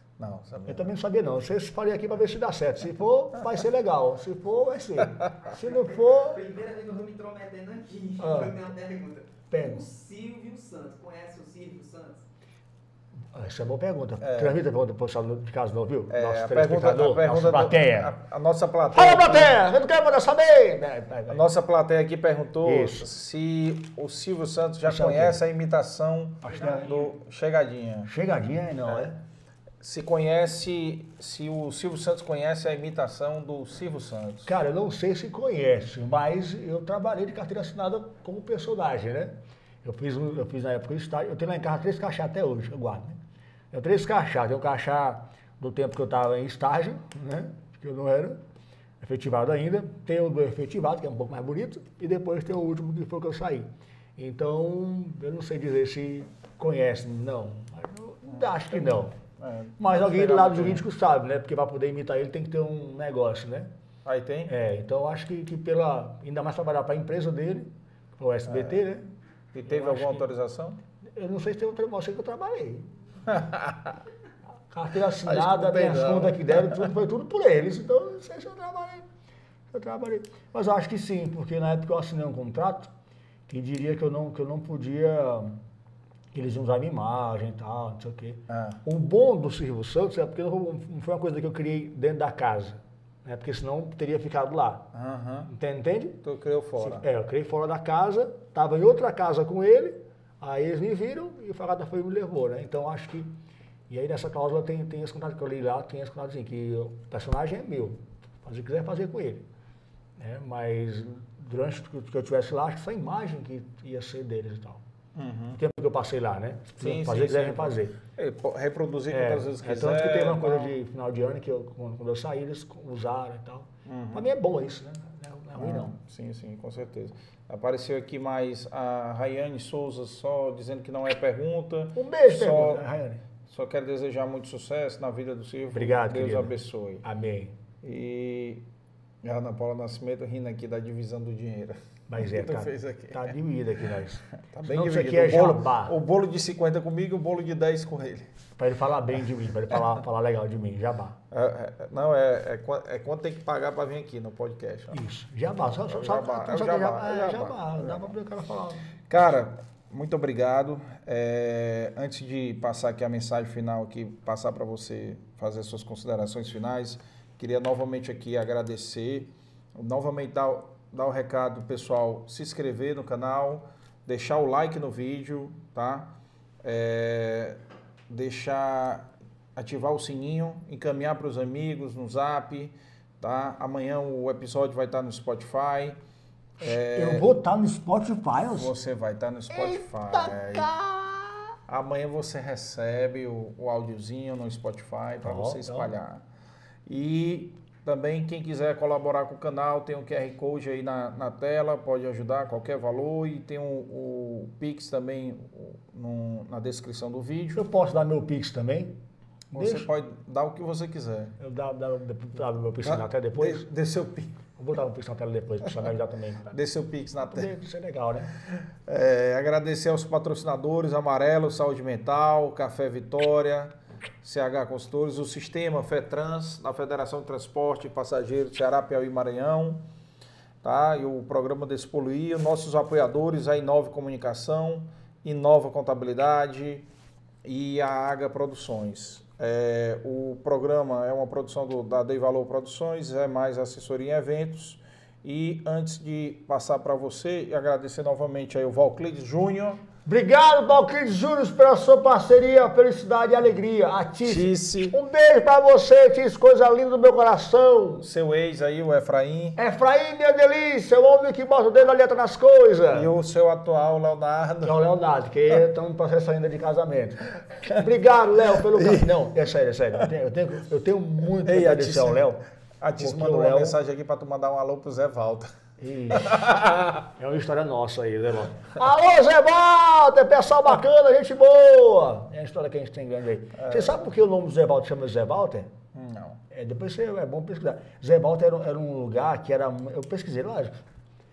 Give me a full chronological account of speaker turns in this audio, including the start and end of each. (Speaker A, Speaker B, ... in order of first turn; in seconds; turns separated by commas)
Speaker A: 0.2-0.9, Speaker B: 0.7-6.4, Speaker C: 5.4-12.2, Speaker B: 8.2-8.6, Speaker B: 9.5-9.8, Speaker B: 13.3-18.1, Speaker A: 14.2-14.6, Speaker A: 16.1-19.6, Speaker B: 18.9-21.4, Speaker A: 21.3-28.1, Speaker B: 22.6-23.1, Speaker B: 24.9-25.4, Speaker B: 26.4-27.0, Speaker B: 28.1-29.2, Speaker A: 29.8-34.5, Speaker B: 34.4-43.2, Speaker B: 43.7-48.4, Speaker B: 49.0-59.1, Speaker A: 58.3-60.9, Speaker B: 59.8-63.7, Speaker A: 64.0-64.5, Speaker B: 64.5-69.0, Speaker A: 68.5-68.8, Speaker A: 69.5-70.8, Speaker B: 69.7-70.3, Speaker B: 71.2-72.9, Speaker A: 73.2-74.0, Speaker B: 74.7-79.0, Speaker A: 75.2-76.9, Speaker B: 79.7-82.9, Speaker B: 83.5-85.5, Speaker B: 86.3-94.9, Speaker A: 88.5-88.8, Speaker A: 94.9-95.5, Speaker B: 95.4-96.2, Speaker A: 96.2-97.0, Speaker B: 96.8-103.3, Speaker B: 103.9-109.4, Speaker B: 110.2-114.8, Speaker A: 115.1-115.6, Speaker B: 115.5-118.0, Speaker A: 116.8-120.7, Speaker B: 119.1-126.0, Speaker A: 123.8-124.2, Speaker A: 125.6-132.8, Speaker B: 131.9-133.2, Speaker A: 133.5-137.0, Speaker B: 135.7-137.5, Speaker A: 137.8-138.6, Speaker A: 139.2-143.3, Speaker B: 142.1-145.9, Speaker A: 144.5-148.3, Speaker B: 148.6-151.2, Speaker A: 151.3-155.0, Speaker B: 154.9-158.9, Speaker A: 155.7-158.1, Speaker A: 159.1-186.0, Speaker A: 186.6-187.3, Speaker B: 186.6-188.7, Speaker A: 188.4-190.7, Speaker B: 189.5-191.6, Speaker A: 191.7-196.2, Speaker B: 195.2-195.9, Speaker A: 196.8-207.7, Speaker B: 207.5-209.0, Speaker B: 209.5-209.9, Speaker A: 209.5-211.3, Speaker B: 211.4-213.7, Speaker A: 212.8-214.4, Speaker B: 214.6-216.5, Speaker A: 216.5-217.5, Speaker B: 217.2-218.3, Speaker A: 218.5-229.8, Speaker A: 230.6-236.9, Speaker A: 237.4-249.8, Speaker B: 250.1-258.1, Speaker A: 254.2-255.0, Speaker A: 258.0-259.6, Speaker B: 259.6-263.1, Speaker A: 262.9-264.8, Speaker B: 264.6-272.4, Speaker A: 268.8-269.1, Speaker A: 271.4-275.5, Speaker B: 273.0-273.8, Speaker B: 275.8-276.5, Speaker A: 276.1-277.1, Speaker B: 277.1-285.7, Speaker A: 283.6-284.0, Speaker A: 285.9-286.4, Speaker B: 286.5-290.8